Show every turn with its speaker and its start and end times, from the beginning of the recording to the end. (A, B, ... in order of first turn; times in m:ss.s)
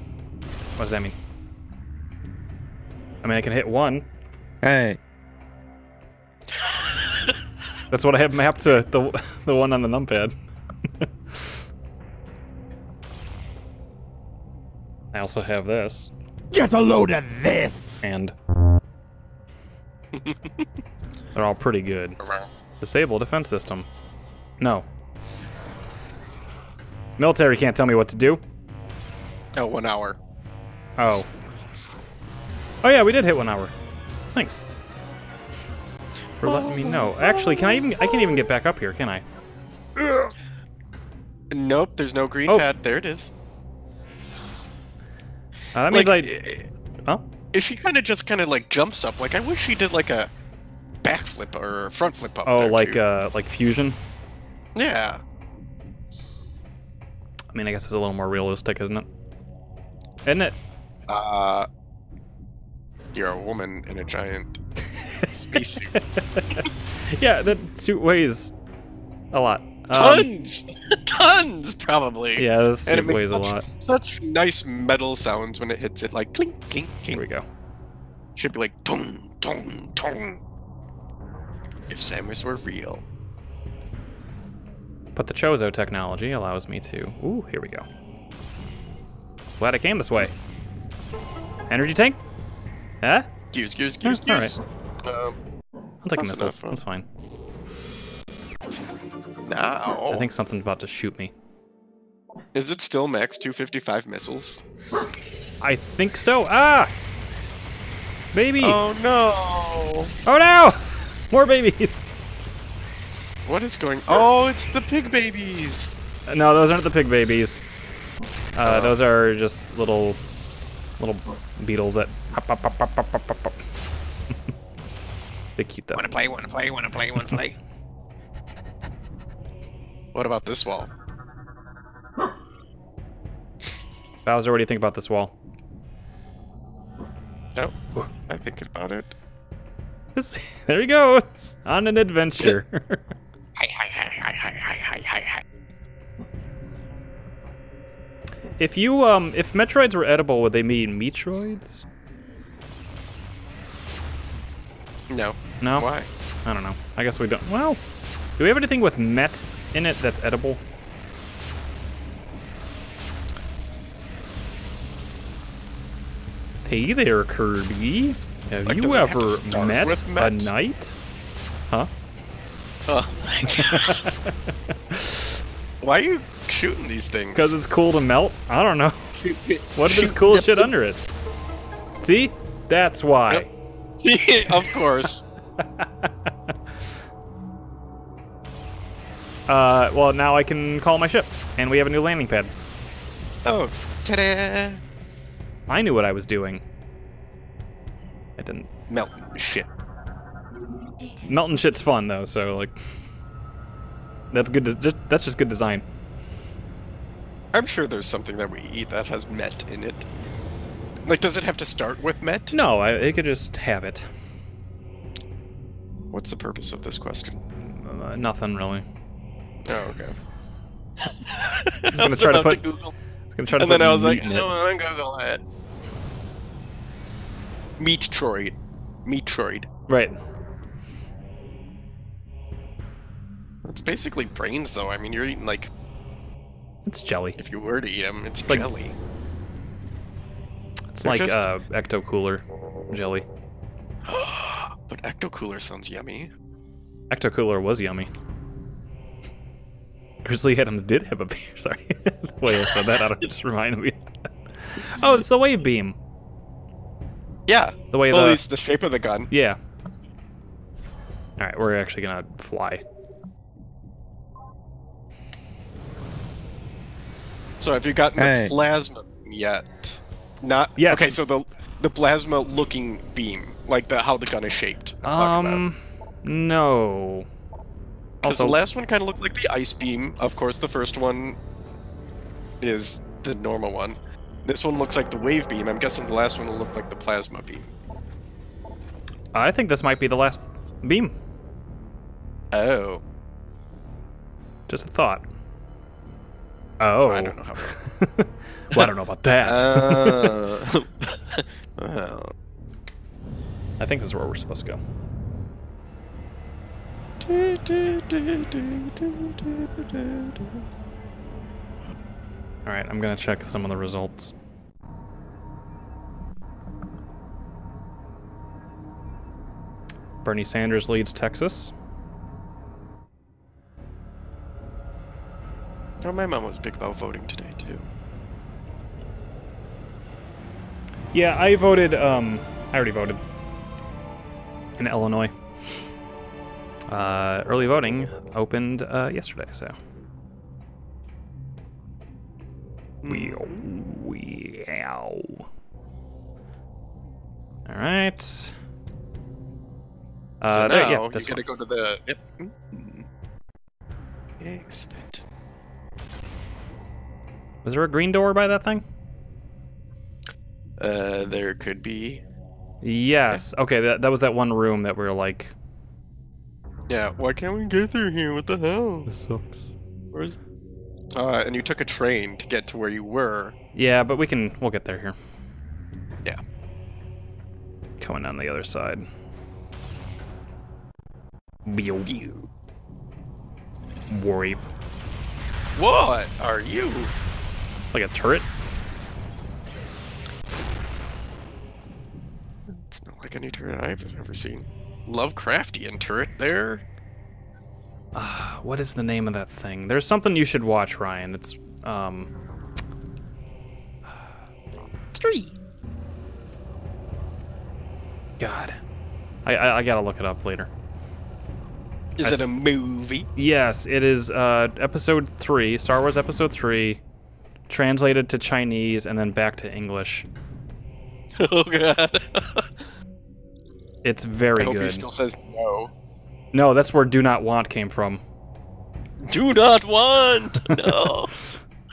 0:00.8-0:01.2 A
0:03.2-0:04.1 A
0:04.6-0:05.0 B
0:07.9-0:10.4 A
0:11.0-0:11.5 A
0:15.1-0:16.1 A
0:16.5-0:18.1 B
0:18.0-0:18.3 A
0:20.1-0:20.6 C
0:21.3-0:22.2 A
0:22.2-0:22.5 C
0:22.8-0:23.9 A
0:24.6-0:24.9 A
0:27.2-0:28.4 A
0:29.6-0:30.2 C
0:31.0-0:31.3 A
0:32.8-0:33.7 A
0:34.3-0:34.6 A
0:36.4-0:39.2 A
0:36.4-0:38.4 C
0:41.5-0:43.3 C
0:44.4-0:44.7 A
0:45.7-0:46.3 A
0:45.9-0:46.7 C
0:47.5-0:50.3 C
0:51.0-0:53.0 C
0:52.5-0:54.0 A
0:54.8-0:55.2 C
0:57.5-0:59.1 A
1:00.3-1:00.6 A
1:01.1-1:01.7 C
1:03.1-1:04.6 C
1:05.2-1:06.0 C
1:05.2-1:08.5 A
1:09.3-1:10.3 A
1:09.9-1:17.2 C
1:12.4-1:13.7 A
1:17.1-1:17.4 A
1:18.4-1:20.4 C
1:21.9-1:23.0 C
1:25.2-1:27.9 A
1:29.6-1:30.3 A
1:31.7-1:32.2 A
1:33.0-1:33.3 A
1:33.5-1:35.4 C
1:34.0-1:34.6 A
1:36.0-1:37.1 A
1:36.2-1:36.8 C
1:39.4-1:40.3 C
1:40.1-1:41.3 A
1:42.5-1:44.6 C
1:45.6-1:46.9 A
1:48.3-1:48.8 A
1:48.6-1:50.1 C
1:50.3-1:52.0 A
1:53.4-1:56.0 C
1:56.3-1:57.6 A
1:58.5-2:00.2 A
1:58.6-1:59.0 C
2:01.0-2:03.6 A
2:05.6-2:06.1 A
2:06.0-2:07.6 C
2:10.1-2:10.9 C
2:14.2-2:15.4 A
2:18.3-2:19.1 C
2:20.2-2:23.1 A
2:23.6-2:25.4 C
2:28.6-2:31.8 A
2:35.1-2:36.1 C
2:35.6-2:35.9 A
2:36.4-2:37.8 A
2:38.4-2:40.6 A
2:46.6-2:51.0 A
2:48.7-2:50.5 C
2:52.9-2:54.0 C
2:53.5-2:54.3 A
2:54.9-2:55.3 A
2:55.8-2:57.6 C
2:57.4-2:59.1 A
2:59.2-3:00.7 C
2:59.8-3:01.0 A
3:02.0-3:03.5 A
3:04.0-3:05.2 C
3:05.6-3:06.3 A
3:09.5-3:12.5 A
3:13.4-3:14.8 C
3:15.7-3:16.6 A
3:18.4-3:18.7 A
3:18.9-3:19.7 C
3:21.2-3:22.8 A
3:24.3-3:25.8 A
3:27.5-3:30.1 C
3:31.0-3:32.6 C
3:32.5-3:34.1 A
3:36.1-3:37.4 C
3:37.7-3:38.8 A
3:39.6-3:40.2 C
3:41.0-3:42.9 C
3:41.9-3:42.6 A
3:43.4-3:44.5 A
3:43.6-3:45.4 C
3:47.8-3:49.7 C
3:49.9-3:50.2 A
3:53.6-3:55.7 C
3:56.9-3:57.4 A
3:57.4-3:59.0 C
4:00.9-4:03.3 A
4:01.0-4:01.4 C
4:04.1-4:06.3 C
4:07.1-4:08.1 A
4:10.2-4:14.1 A
4:14.7-4:16.0 A
4:17.5-4:19.3 C
4:17.9-4:18.4 A
4:19.3-4:19.6 A
4:21.4-4:22.8 A
4:27.6-4:35.6 C
4:28.2-4:28.6 B
4:30.8-4:31.2 A
4:35.0-4:37.3 A
4:38.2-4:41.4 C
4:38.2-4:38.6 A
4:42.6-4:47.7 C
4:49.3-4:51.1 A
4:52.5-4:53.0 C
4:54.7-4:55.3 A
4:56.8-5:00.4 A
4:57.1-4:57.8 C
4:59.4-5:02.3 C
5:03.8-5:04.8 A
5:07.2-5:10.6 C
5:12.7-5:14.3 A
5:20.2-5:21.7 A
5:26.0-5:27.8 C
5:31.1-5:33.2 A
5:34.8-5:35.3 A
5:36.9-5:39.8 A
5:43.0-5:43.6 C
5:43.1-5:45.5 A
5:47.7-5:48.6 A
5:50.4-5:51.4 A
5:50.5-5:53.1 C
5:54.4-5:55.2 C
5:57.6-5:58.8 A
6:00.8-6:02.2 C
6:02.8-6:05.5 A
6:06.9-6:09.1 C
6:09.1-6:09.6 A
6:10.1-6:10.4 C
6:11.1-6:13.6 C
6:13.8-6:15.2 A
6:18.0-6:19.1 A
6:21.7-6:22.1 A
6:22.1-6:22.5 C
6:24.1-6:24.6 A
6:25.8-6:27.1 C
6:27.9-6:28.5 A
6:32.7-6:36.8 C
6:38.2-6:42.3 A
6:45.2-6:45.5 C
6:48.4-6:48.8 A
6:49.4-6:50.7 A
6:52.2-6:53.3 C
6:52.2-6:52.5 A
6:53.4-6:57.0 A
6:57.7-7:00.3 A
7:01.4-7:02.8 C
7:04.0-7:05.1 A
7:04.6-7:05.9 C
7:06.5-7:08.2 A
7:09.2-7:11.4 C
7:10.7-7:11.0 A